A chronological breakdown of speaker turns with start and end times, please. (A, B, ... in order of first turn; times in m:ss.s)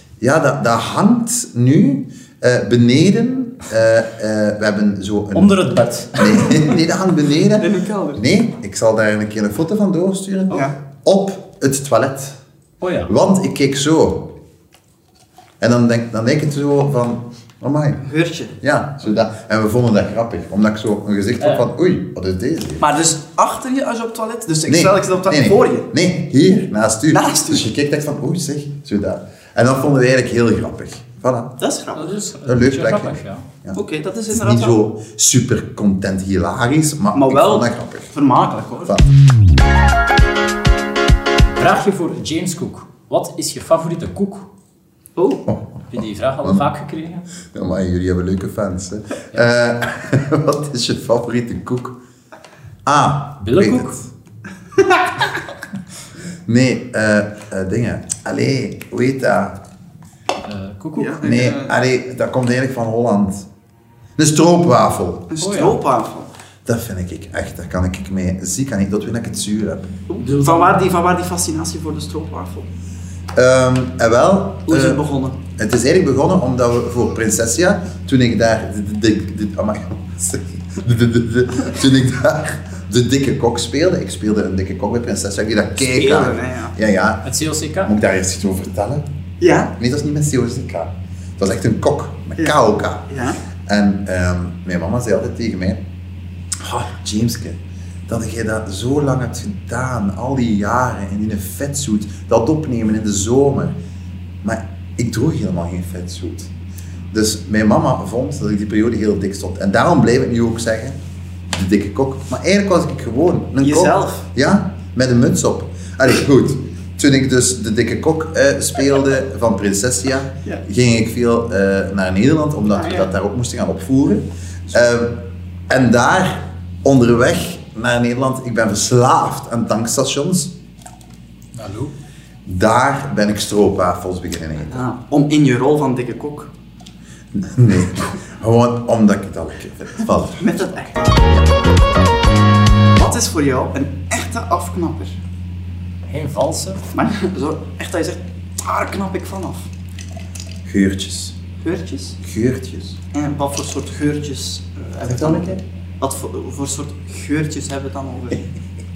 0:00.2-0:05.6 A
0:05.3-0:06.7 B
0:06.2-0:12.4 A
0:07.6-0:08.2 C
0:12.8-0:13.1 B
0:13.1-0:14.3 A
0:15.6-0:18.0 A
0:18.0-0:18.5 C
0:18.6-0:22.8 A
0:21.4-0:21.7 B
0:22.8-0:25.9 C
0:24.7-0:31.6 A
0:27.1-0:27.6 C
0:31.6-0:32.2 C
0:32.0-0:33.4 B
0:32.5-0:33.8 A
0:33.7-0:34.8 C
0:34.3-0:38.1 A
0:37.1-0:39.0 C
0:41.5-0:44.5 B
0:45.2-0:45.5 C
0:45.5-0:46.7 A
0:45.9-0:47.3 B
0:47.5-0:52.0 A
0:52.9-0:54.0 A
0:53.4-0:54.0 B
0:56.5-0:59.6 A
1:00.4-1:01.2 B
1:01.0-1:01.7 C
1:01.2-1:03.5 A
1:04.2-1:05.3 A
1:05.3-1:06.3 C
1:05.4-1:05.8 B
1:06.7-1:09.9 A
1:10.1-1:12.7 C
1:10.2-1:10.8 B
1:13.4-1:15.0 A
1:14.7-1:15.4 C
1:15.6-1:29.0 A
1:25.8-1:26.8 C
1:27.2-1:27.9 B
1:29.4-1:29.7 C
1:29.8-1:33.1 A
1:33.1-1:33.4 C
1:33.6-1:35.8 A
1:36.6-1:43.8 A
1:44.4-1:46.5 A
1:47.1-1:51.0 A
1:51.5-2:10.5 A
1:53.6-1:54.2 C
2:02.8-2:03.1 C
2:11.6-2:11.9 B
2:12.5-2:14.8 A
2:14.6-2:16.5 C
2:17.3-2:21.5 A
2:20.4-2:21.0 C
2:23.0-2:25.2 C
2:26.1-2:26.8 B
2:26.9-2:29.7 C
2:30.6-2:31.4 A
2:31.6-2:32.2 C
2:32.2-2:33.0 A
2:33.1-2:38.4 C
2:35.1-2:35.6 A